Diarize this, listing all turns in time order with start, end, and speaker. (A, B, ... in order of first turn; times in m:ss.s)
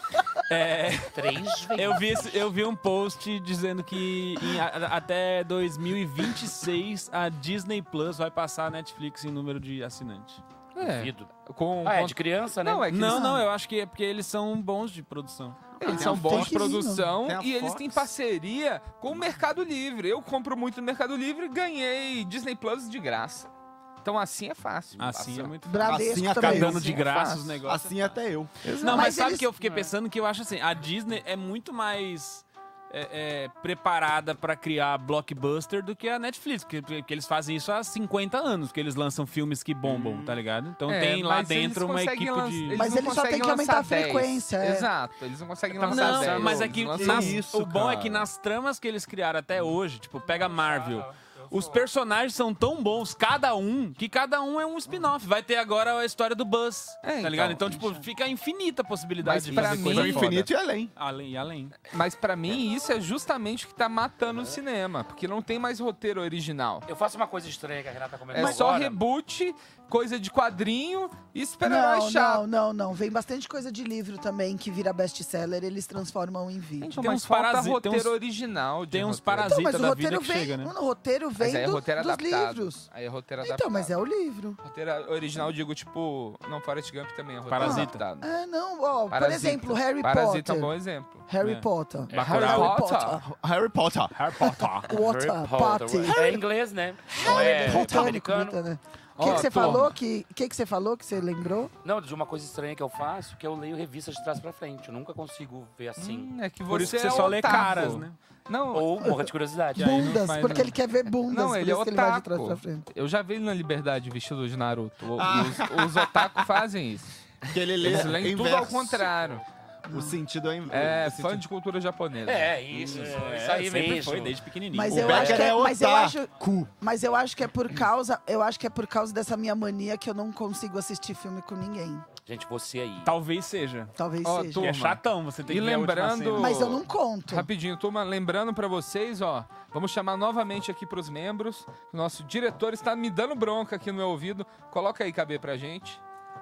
0:00.5-0:01.2 A
0:01.1-0:02.5 B
0:01.8-0:10.4 A
0:10.8-0:13.2 C
0:10.8-0:11.3 B
0:11.8-0:13.0 B
0:12.9-0:15.8 A
0:13.0-0:13.5 D
0:15.8-0:23.5 C
0:15.8-0:17.0 D
0:15.8-0:18.1 E
0:24.0-0:25.6 C
0:25.0-0:27.9 A
0:25.6-0:27.0 D
0:25.8-0:27.0 E
0:26.4-0:27.6 C
0:27.6-0:28.5 E
0:28.6-0:29.1 C
0:28.8-0:42.9 A
0:28.8-0:29.5 D
0:29.6-0:29.9 B
0:40.9-0:47.4 C
0:42.7-0:44.9 D
0:45.8-1:01.8 A
0:45.9-0:48.3 E
0:50.2-0:51.9 B
0:57.0-0:57.7 C
0:57.7-0:58.1 D
0:59.2-1:00.4 C
0:59.8-1:00.9 E
1:01.9-1:06.9 C
1:06.9-1:09.0 B
1:08.3-1:12.4 C
1:11.6-1:17.0 D
1:16.8-1:19.5 C
1:17.0-1:18.2 A
1:18.9-1:20.7 A
1:19.3-1:22.9 D
1:21.4-1:24.0 C
1:23.4-1:24.6 D
1:24.6-1:28.3 C
1:27.5-1:28.1 A
1:27.6-1:30.7 D
1:29.1-1:31.3 C
1:31.3-1:33.3 D
1:31.4-1:32.8 A
1:32.1-1:32.6 B
1:32.2-1:33.2 C
1:33.2-1:34.2 E
1:34.2-1:34.9 A
1:34.9-1:36.4 D
1:34.9-1:38.6 B
1:36.1-1:36.4 E
1:37.1-1:41.7 D
1:39.2-1:40.0 A
1:39.2-1:39.9 C
1:41.8-1:46.3 B
1:46.0-1:48.9 C
1:46.7-1:48.2 A
1:47.0-1:47.3 B
1:48.7-1:50.1 B
1:49.0-1:52.9 D
1:49.8-1:50.8 A
1:51.3-1:57.2 C
1:55.2-1:56.5 E
1:57.4-1:59.1 E
1:57.8-1:59.4 C
1:59.9-2:00.2 D
1:59.9-2:01.4 E
2:00.7-2:02.6 C
2:02.2-2:04.4 B
2:02.7-2:05.1 A
2:04.7-2:12.1 D
2:04.9-2:06.2 E
2:05.0-2:05.5 B
2:12.2-2:13.2 B
2:13.0-2:13.9 A
2:14.0-2:14.8 D
2:14.2-2:26.0 C
2:14.6-2:16.8 A
2:16.3-2:17.5 D